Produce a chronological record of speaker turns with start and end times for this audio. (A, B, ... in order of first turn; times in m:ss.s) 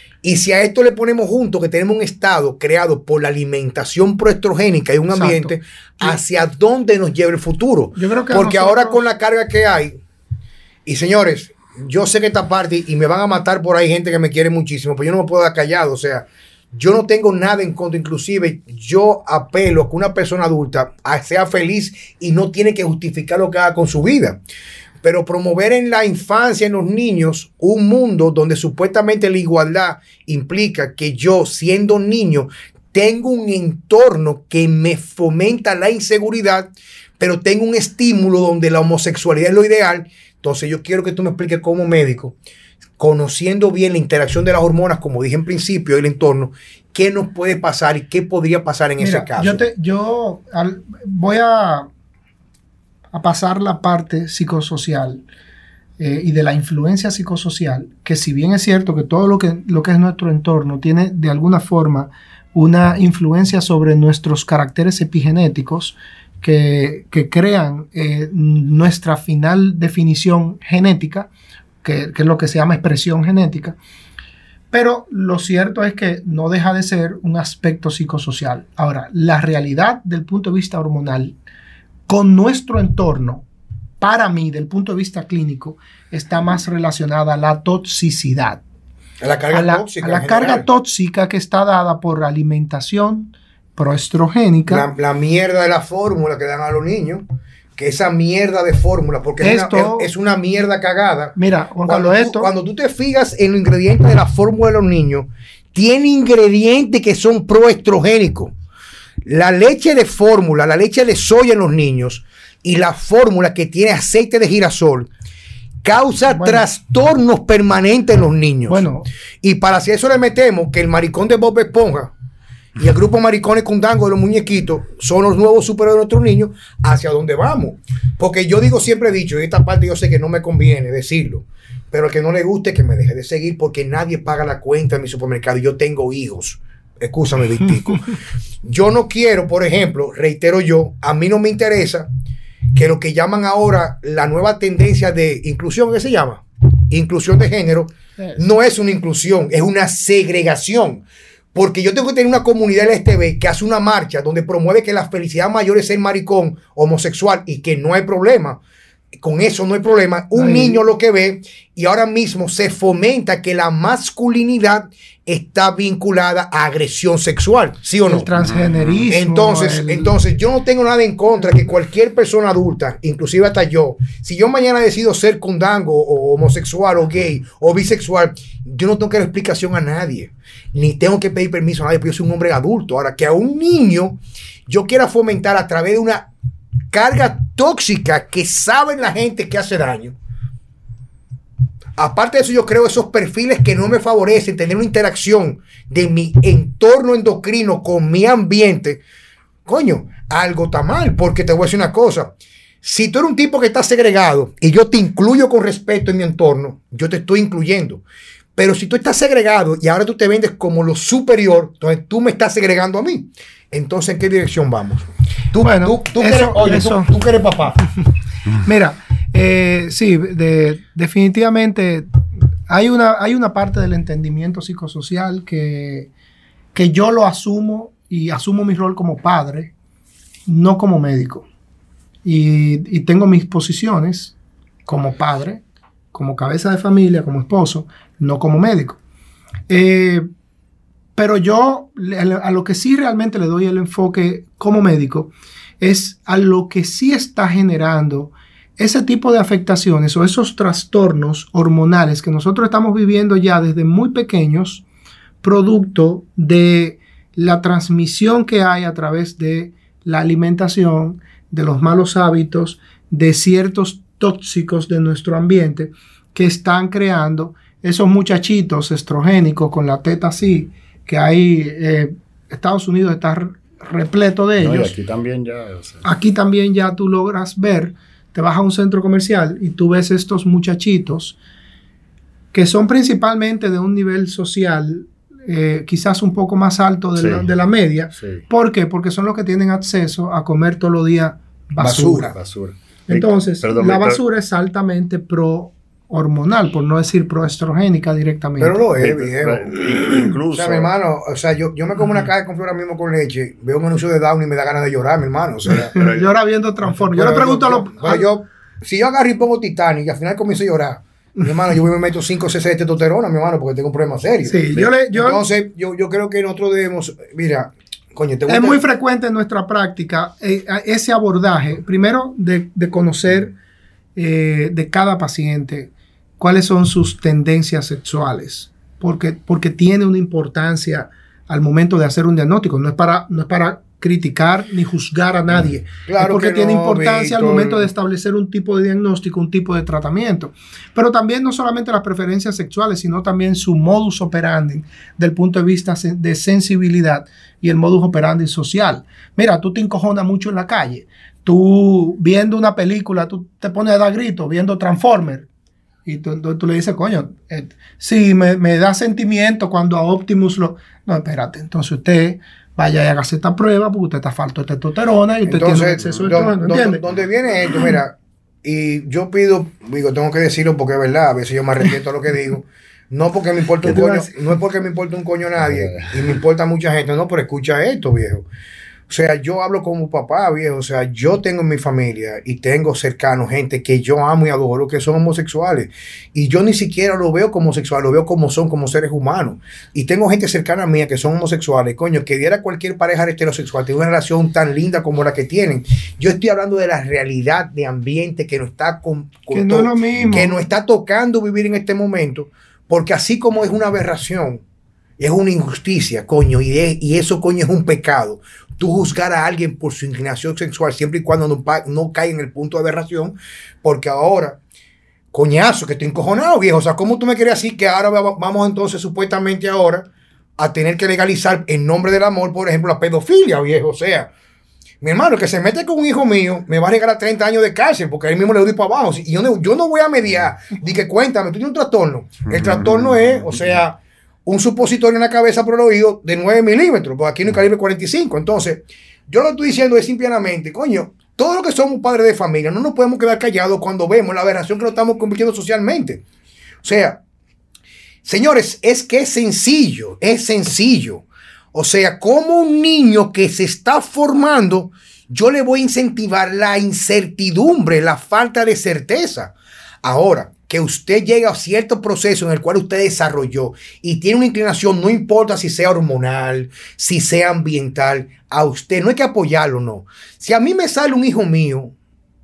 0:00.2-0:10.0 A
0:05.1-0:06.2 B
0:07.9-0:09.0 B
0:10.8-0:24.4 A
0:25.0-0:42.4 A
0:43.0-0:49.6 A
0:49.0-0:51.9 B
0:53.1-0:55.2 B
0:56.0-1:11.3 B
1:11.8-1:13.8 B
1:14.7-1:21.4 B
1:22.1-1:23.4 B
1:24.0-1:28.6 B
1:29.2-1:30.7 A
1:29.5-1:34.8 B
1:34.7-1:37.2 A
1:37.8-1:48.5 A
1:39.4-1:40.1 B
1:41.4-1:42.5 B
1:49.2-1:55.1 A
1:55.8-1:58.9 A
1:56.3-1:56.6 B
1:58.7-1:59.1 B
1:59.4-2:02.1 A
2:02.8-2:18.1 A
2:18.6-2:22.1 A
2:22.7-2:38.6 A
2:39.2-2:48.3 A
2:40.3-2:40.8 B
2:48.0-2:50.2 B
2:48.4-2:49.0 C
2:49.1-3:06.3 A
3:06.9-3:10.2 A
3:12.0-3:19.0 A
3:19.6-3:28.0 A
3:28.6-3:37.8 A
3:35.6-3:37.1 B
3:38.6-3:42.1 B
3:42.7-3:46.1 B
3:46.7-3:49.7 B
3:50.5-3:51.4 B
3:52.2-3:54.3 B
3:54.8-3:59.0 B
3:59.7-4:00.2 B
4:01.2-4:14.8 B
4:15.4-4:34.9 B
4:34.6-4:36.0 C
4:36.0-4:41.4 B
4:42.5-4:52.3 B
4:47.2-4:47.5 C
4:48.2-4:48.4 C
4:51.8-4:52.4 A
4:52.3-4:54.2 C
4:53.1-4:58.8 B
4:58.6-4:59.8 A
4:59.0-5:00.9 C
5:00.5-5:06.1 A
5:05.9-5:08.3 B
5:06.0-5:06.2 C
5:07.0-5:18.8 A
5:14.4-5:15.4 B
5:18.5-5:23.5 B
5:24.2-5:55.5 B
5:36.0-5:37.9 A
5:56.0-6:07.0 B
6:05.4-6:18.5 A
6:13.8-6:14.3 B
6:15.6-6:16.1 C
6:19.1-6:44.6 A
6:39.5-6:40.6 B
6:45.2-6:54.6 A
6:55.3-7:04.3 A
7:05.0-7:26.2 A
7:12.5-7:12.9 C
7:26.8-7:27.2 A
7:28.2-7:51.9 A